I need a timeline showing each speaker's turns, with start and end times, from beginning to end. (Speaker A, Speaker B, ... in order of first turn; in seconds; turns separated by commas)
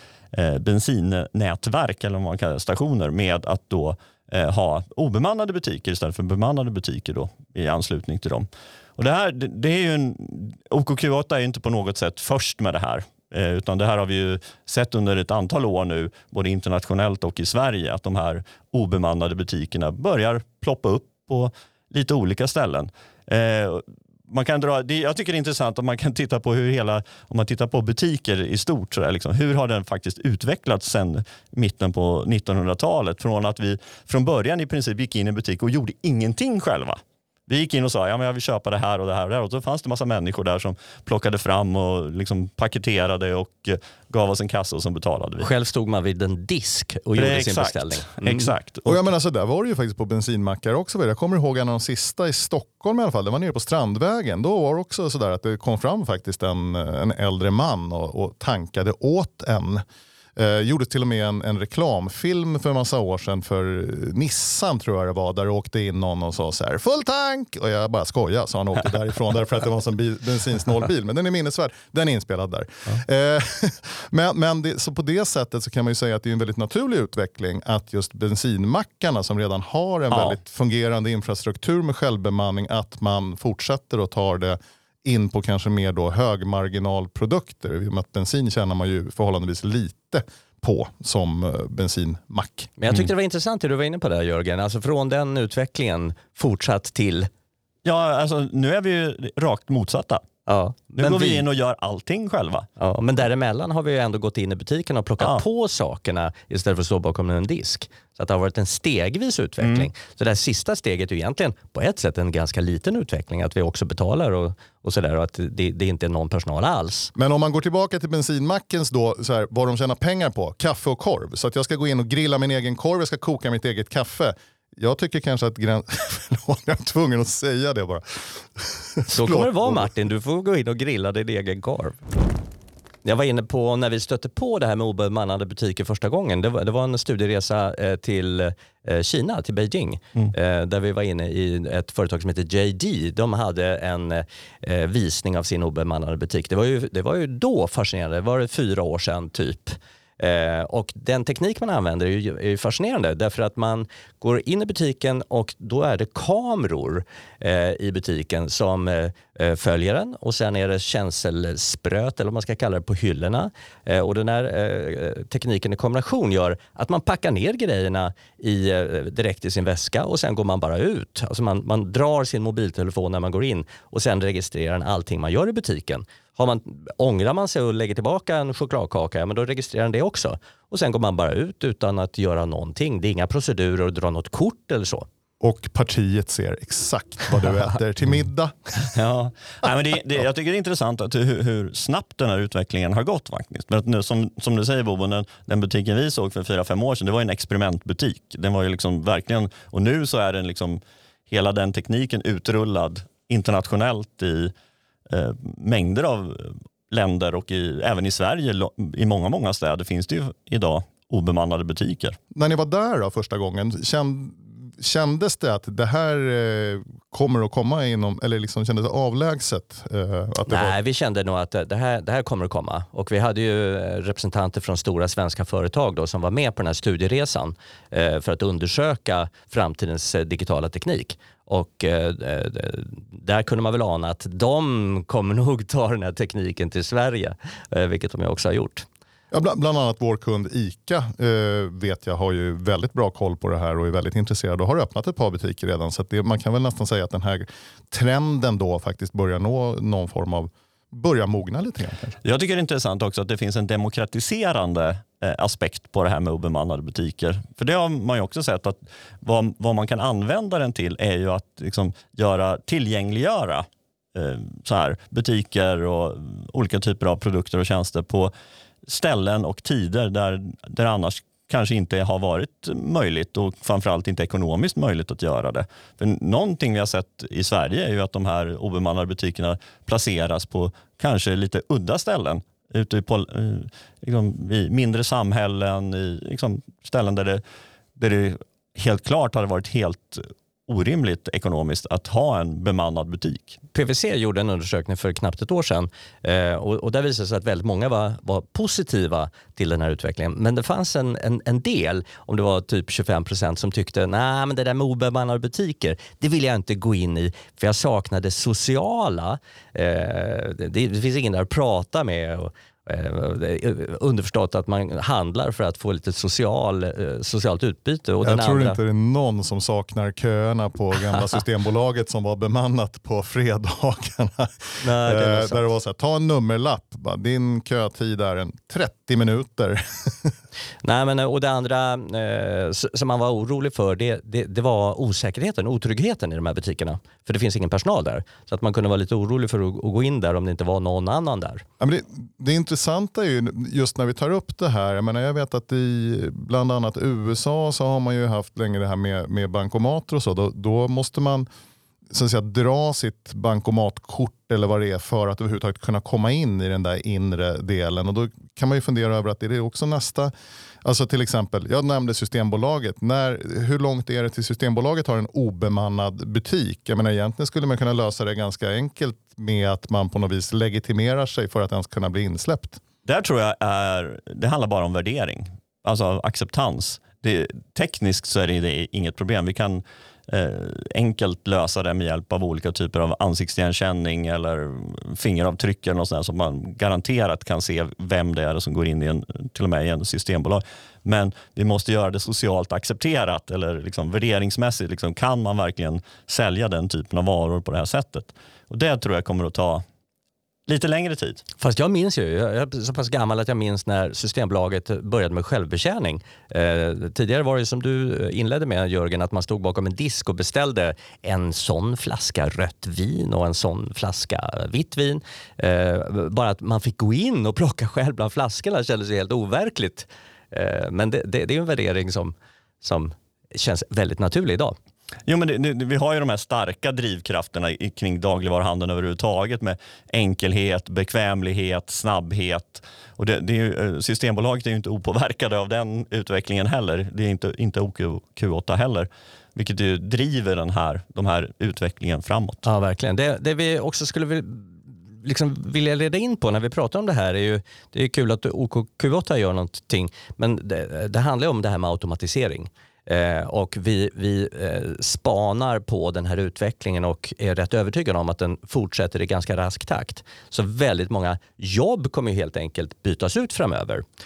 Speaker A: 0.3-45.5, Speaker B: 45.4-48.5, Speaker A: 47.2-49.0, Speaker C: 48.9-59.8, Speaker C: 60.4-92.7, Speaker A: 80.1-80.4, Speaker B: 92.8-97.3, Speaker A: 97.8-100.2, Speaker B: 100.5-101.5, Speaker A: 101.0-102.7, Speaker B: 102.8-117.1, Speaker A: 109.6-109.9, Speaker C: 117.2-129.9, Speaker B: 129.1-132.0, Speaker B: 133.1-185.1, Speaker C: 185.4-189.0, Speaker A: 188.9-204.5, Speaker A: 205.1-212.2, Speaker C: 212.3-220.7, Speaker B: 220.5-238.9, Speaker C: 239.3-252.2, Speaker A: 252.2-268.3, Speaker A: 268.9-287.4, Speaker A: 288.0-293.6, Speaker B: 293.7-318.8, Speaker C: 318.2-330.4, Speaker B: 324.8-325.6, Speaker B: 330.8-341.6, Speaker C: 341.8-351.5, Speaker C: 352.1-360.3, Speaker C: 360.8-372.8, Speaker A: 373.1-399.8, Speaker A: 400.7-401.4, Speaker B: 401.6-424.8, Speaker A: 425.3-442.7, Speaker B: 442.6-464.0